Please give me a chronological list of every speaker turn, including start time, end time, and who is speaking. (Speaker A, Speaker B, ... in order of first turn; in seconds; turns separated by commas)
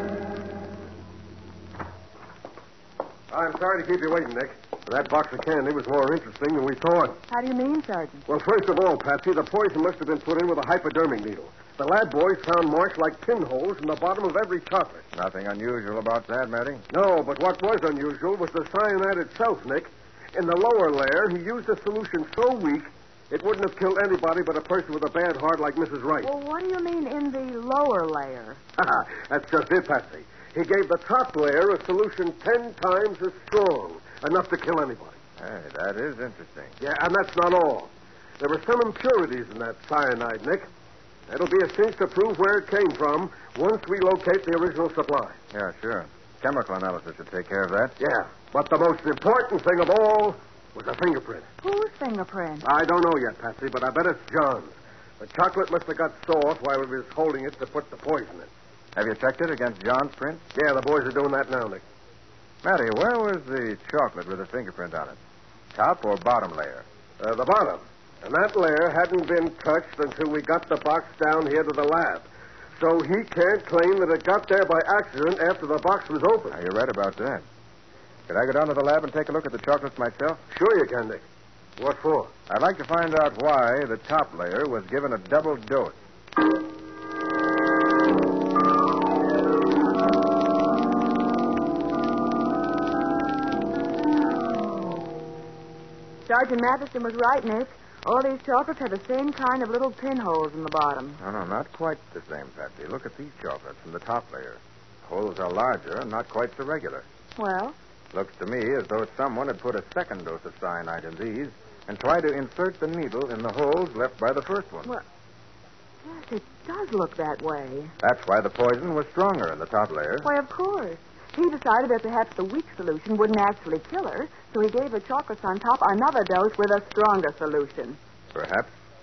Speaker A: 3.3-7.2, Speaker B: 7.3-8.2, Speaker A: 8.3-15.0, Speaker C: 15.1-16.9, Speaker A: 16.9-26.3, Speaker B: 26.2-28.6, Speaker A: 28.8-35.1, Speaker C: 35.4-36.7, Speaker A: 36.8-40.7, Speaker A: 41.3-45.4, Speaker C: 45.5-48.0, Speaker A: 48.0-51.5, Speaker B: 51.6-52.7, Speaker A: 52.6-58.5, Speaker C: 59.0-60.5, Speaker A: 60.5-61.8, Speaker C: 62.6-65.2, Speaker C: 65.7-66.8, Speaker A: 67.2-76.6, Speaker C: 76.5-77.4, Speaker C: 78.3-80.4, Speaker A: 80.5-81.2, Speaker A: 81.8-82.3, Speaker C: 82.5-86.0, Speaker B: 96.2-101.2, Speaker C: 101.2-107.0, Speaker B: 107.4-107.8, Speaker C: 108.1-114.9, Speaker B: 116.0-117.9, Speaker C: 118.0-120.3, Speaker B: 120.2-128.0, Speaker C: 128.3-128.7